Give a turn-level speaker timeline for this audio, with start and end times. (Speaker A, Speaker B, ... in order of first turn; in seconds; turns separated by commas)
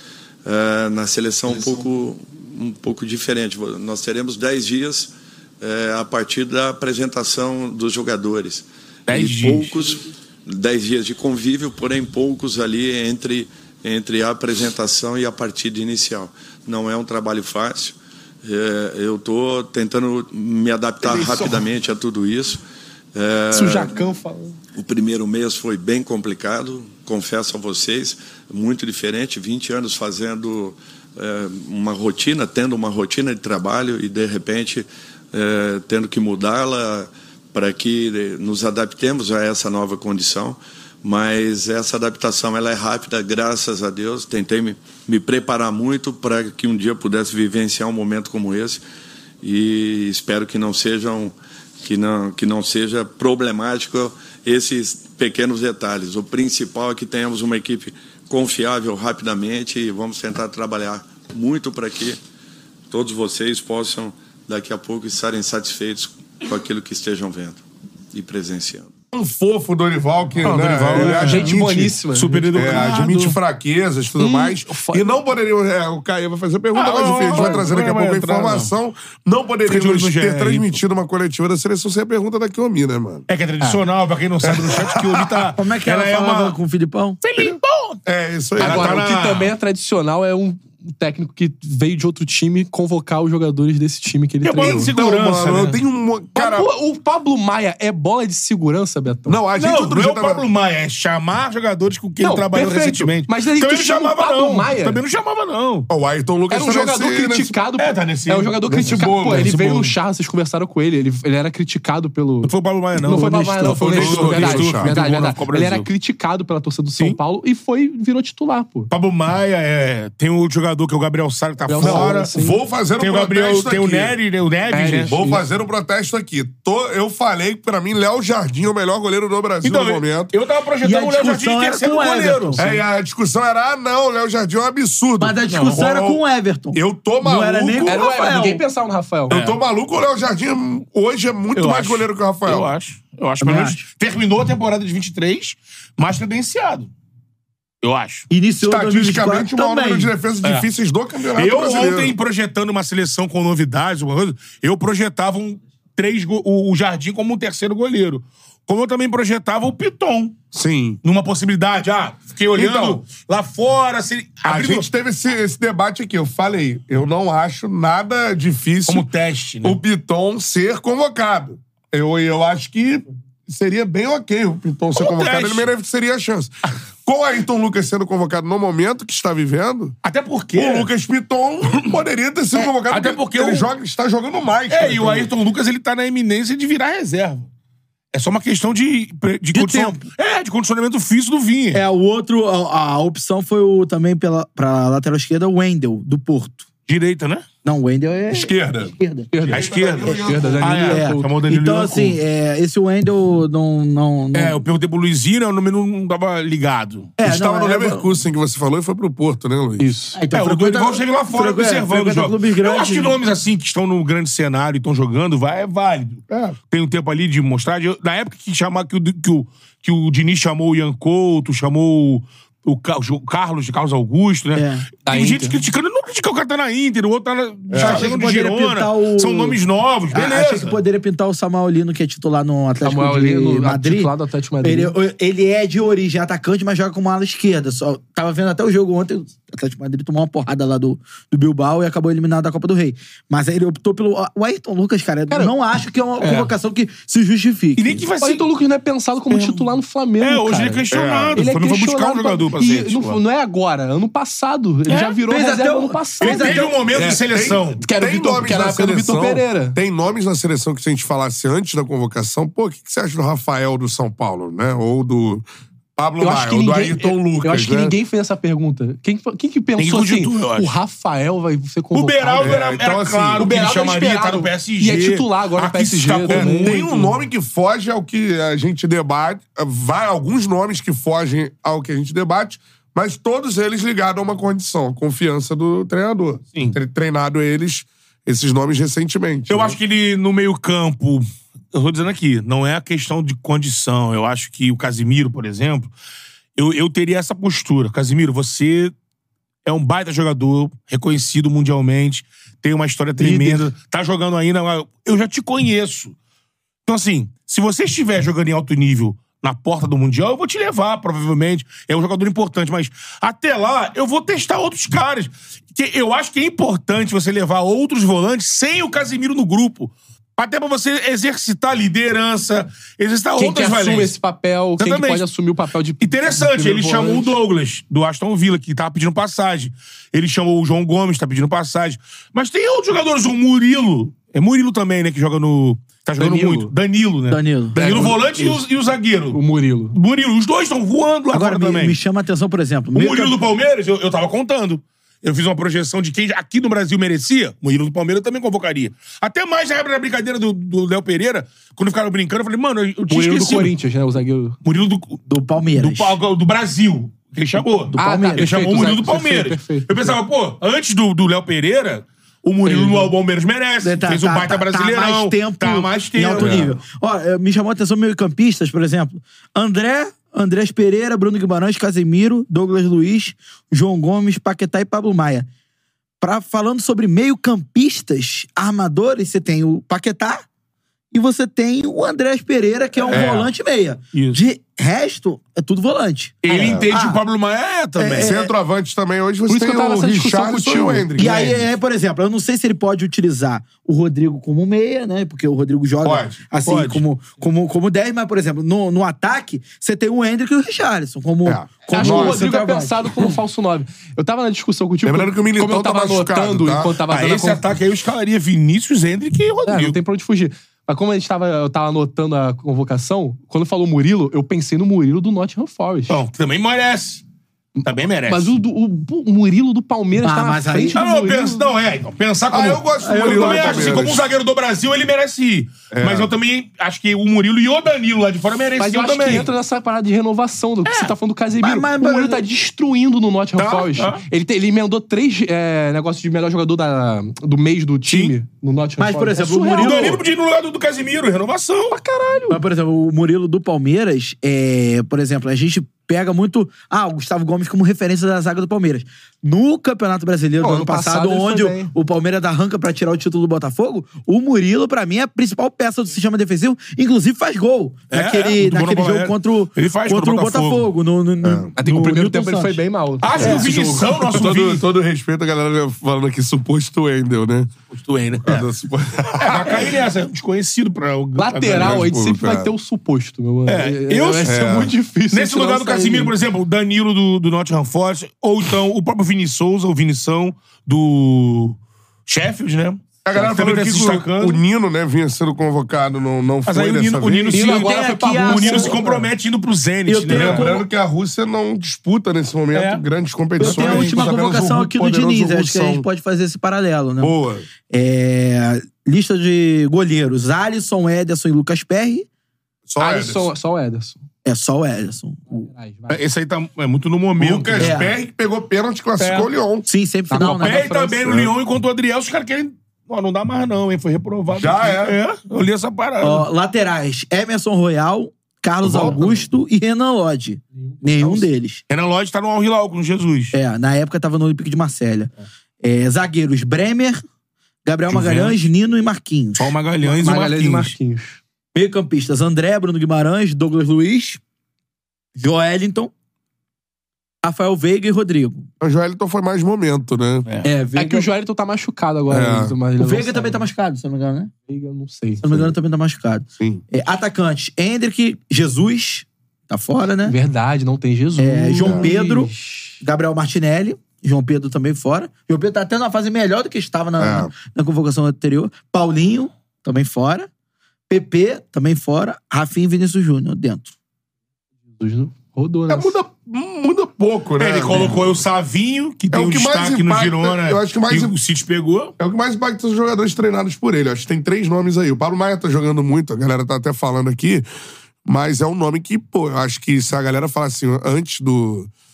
Speaker A: 0.4-22.6, Speaker B: 9.1-9.8, Speaker C: 21.0-21.6, Speaker A: 23.1-23.9, Speaker C: 23.5-24.6, Speaker A: 24.7-48.8, Speaker A: 49.4-62.2, Speaker A: 62.9-68.9, Speaker D: 69.1-72.0, Speaker C: 70.4-73.2, Speaker B: 70.4-73.3, Speaker D: 72.5-83.2, Speaker C: 74.2-75.1, Speaker B: 76.7-78.7, Speaker C: 77.3-77.6, Speaker B: 79.7-80.8, Speaker B: 83.3-86.5, Speaker D: 84.4-85.5, Speaker E: 85.6-87.2, Speaker B: 87.2-88.0, Speaker D: 87.4-89.1, Speaker B: 88.6-89.5, Speaker C: 88.6-94.9, Speaker B: 94.4-95.8, Speaker D: 94.6-96.7, Speaker C: 96.3-99.4, Speaker D: 99.3-100.4, Speaker B: 99.5-105.9, Speaker C: 102.2-105.0, Speaker D: 105.9-107.5, Speaker C: 106.5-112.5, Speaker B: 107.8-109.5, Speaker D: 108.6-109.9, Speaker B: 112.4-115.9, Speaker C: 113.0-118.9, Speaker D: 113.6-115.0, Speaker B: 118.9-122.3, Speaker C: 121.7-122.6, Speaker D: 121.8-124.2, Speaker B: 123.0-125.2, Speaker C: 124.7-125.4, Speaker D: 125.1-130.3, Speaker B: 129.6-132.8, Speaker E: 130.8-132.6, Speaker D: 132.6-136.2, Speaker E: 135.2-138.6, Speaker D: 136.7-138.1, Speaker C: 137.8-139.3, Speaker D: 139.3-142.7, Speaker B: 139.3-139.6, Speaker B: 141.6-146.9, Speaker E: 143.4-143.8, Speaker B: 147.8-148.3, Speaker E: 148.3-150.1, Speaker D: 148.6-152.1, Speaker B: 150.4-150.7, Speaker B: 151.3-160.4, Speaker D: 160.5-161.0, Speaker B: 161.0-164.9, Speaker D: 162.5-163.0, Speaker D: 164.4-169.1, Speaker B: 168.9-169.8, Speaker D: 169.6-176.5, Speaker B: 174.9-175.7, Speaker D: 177.0-179.9, Speaker B: 180.0-180.9, Speaker D: 180.5-185.3, Speaker B: 182.9-183.7, Speaker B: 184.7-187.5, Speaker B: 188.1-191.8, Speaker E: 189.5-190.0, Speaker E: 191.7-196.6, Speaker B: 196.9-197.4, Speaker E: 197.6-199.3, Speaker D: 198.3-200.9, Speaker C: 199.3-201.3, Speaker B: 199.5-202.2, Speaker E: 200.0-204.6, Speaker B: 204.3-207.1, Speaker E: 207.2-208.1, Speaker D: 207.2-209.9, Speaker C: 209.8-210.2, Speaker E: 210.1-213.1, Speaker B: 210.3-230.8, Speaker D: 216.3-216.6, Speaker E: 224.5-224.9, Speaker C: 225.1-225.6, Speaker D: 227.7-228.1, Speaker E: 227.7-229.6, Speaker E: 230.1-234.1, Speaker C: 232.8-234.9, Speaker E: 234.6-248.0, Speaker B: 246.2-246.5, Speaker B: 247.8-248.5, Speaker C: 248.2-250.8, Speaker B: 249.3-253.2, Speaker D: 250.9-251.4, Speaker C: 251.3-256.6, Speaker B: 254.9-255.2, Speaker E: 255.3-256.7, Speaker B: 256.2-257.8, Speaker D: 256.9-265.4, Speaker C: 257.8-259.8, Speaker D: 266.0-267.9, Speaker C: 266.2-272.5, Speaker B: 269.8-270.7, Speaker B: 271.9-276.8, Speaker D: 272.4-273.5, Speaker C: 273.4-277.1, Speaker D: 276.3-289.8, Speaker B: 289.5-295.9, Speaker B: 296.6-298.9, Speaker B: 299.6-306.1, Speaker C: 303.2-303.6, Speaker B: 306.9-324.1, Speaker C: 323.4-327.4, Speaker B: 324.8-325.2, Speaker B: 326.0-339.4, Speaker C: 336.2-336.7, Speaker E: 337.3-338.1, Speaker C: 337.7-338.6, Speaker C: 339.3-339.9, Speaker B: 339.9-342.0, Speaker E: 341.3-343.4, Speaker B: 342.9-353.7, Speaker C: 353.1-354.6, Speaker B: 354.6-355.2, Speaker E: 355.3-356.1, Speaker B: 355.8-366.6, Speaker E: 357.9-358.6, Speaker C: 357.9-360.2, Speaker C: 362.6-363.1, Speaker E: 363.8-375.5, Speaker D: 366.4-366.8, Speaker E: 376.2-380.4, Speaker E: 381.1-387.2, Speaker B: 383.1-383.4, Speaker D: 383.1-383.5, Speaker B: 384.1-384.4, Speaker B: 386.4-388.3, Speaker D: 386.5-386.9, Speaker E: 388.0-388.5, Speaker D: 388.1-391.6, Speaker C: 389.5-391.1, Speaker E: 391.2-403.0, Speaker D: 396.0-396.4, Speaker B: 396.6-397.0, Speaker D: 401.4-402.5, Speaker C: 401.9-407.6, Speaker D: 405.0-407.0, Speaker B: 407.1-410.0, Speaker C: 409.7-416.2, Speaker B: 416.1-417.2, Speaker C: 417.8-421.6, Speaker B: 417.8-418.5, Speaker E: 420.2-421.0, Speaker B: 420.9-429.5, Speaker D: 422.5-424.2, Speaker E: 423.0-424.0, Speaker D: 425.9-426.3, Speaker C: 428.8-440.2, Speaker B: 430.8-431.1, Speaker E: 431.6-432.4, Speaker B: 433.6-434.2, Speaker B: 438.1-438.3, Speaker E: 439.0-440.2, Speaker B: 439.8-442.0, Speaker C: 441.9-442.6, Speaker E: 442.5-462.8, Speaker C: 450.6-451.9, Speaker B: 458.1-460.9, Speaker D: 461.4-461.7, Speaker C: 461.8-464.2, Speaker B: 463.2-464.8, Speaker D: 464.1-467.7, Speaker B: 467.9-468.6, Speaker D: 468.4-469.9, Speaker B: 469.4-472.1, Speaker C: 471.4-476.3, Speaker D: 471.7-472.7, Speaker B: 473.6-474.6, Speaker D: 474.4-474.9, Speaker B: 475.3-484.6, Speaker D: 483.2-487.6, Speaker B: 486.6-490.8, Speaker C: 487.5-489.2, Speaker E: 487.6-489.2, Speaker E: 490.1-490.8, Speaker D: 490.3-496.1, Speaker B: 492.7-493.0, Speaker E: 493.6-497.3, Speaker B: 493.6-494.1, Speaker D: 497.2-497.7, Speaker E: 497.9-502.3, Speaker D: 502.9-503.5, Speaker C: 503.0-504.2, Speaker E: 504.4-505.7, Speaker C: 505.5-506.2, Speaker B: 506.1-508.0, Speaker D: 507.4-509.9, Speaker E: 507.8-508.1, Speaker B: 509.2-509.5, Speaker E: 509.9-510.9, Speaker C: 510.3-511.4, Speaker B: 510.6-516.5, Speaker D: 514.5-515.2, Speaker E: 516.2-521.8, Speaker B: 518.9-519.4, Speaker C: 520.9-521.4, Speaker B: 521.9-523.5, Speaker E: 523.5-525.3, Speaker E: 525.8-527.2, Speaker E: 527.8-529.7, Speaker B: 528.1-528.6, Speaker B: 529.6-530.9, Speaker C: 530.0-531.4, Speaker E: 531.7-534.4, Speaker E: 535.4-536.1, Speaker E: 537.4-538.7, Speaker D: 538.8-540.5, Speaker E: 540.6-541.3, Speaker C: 540.9-543.6, Speaker D: 542.3-542.8, Speaker E: 543.0-544.5, Speaker C: 544.7-545.4, Speaker E: 545.4-550.4, Speaker D: 546.6-546.8, Speaker C: 550.2-553.0, Speaker E: 551.4-560.5, Speaker D: 551.8-552.1, Speaker D: 557.2-557.5, Speaker E: 561.1-563.9, Speaker C: 565.0-566.2, Speaker D: 565.9-568.4, Speaker B: 567.6-572.1, Speaker D: 569.3-571.3, Speaker D: 572.2-577.7, Speaker D: 578.2-581.9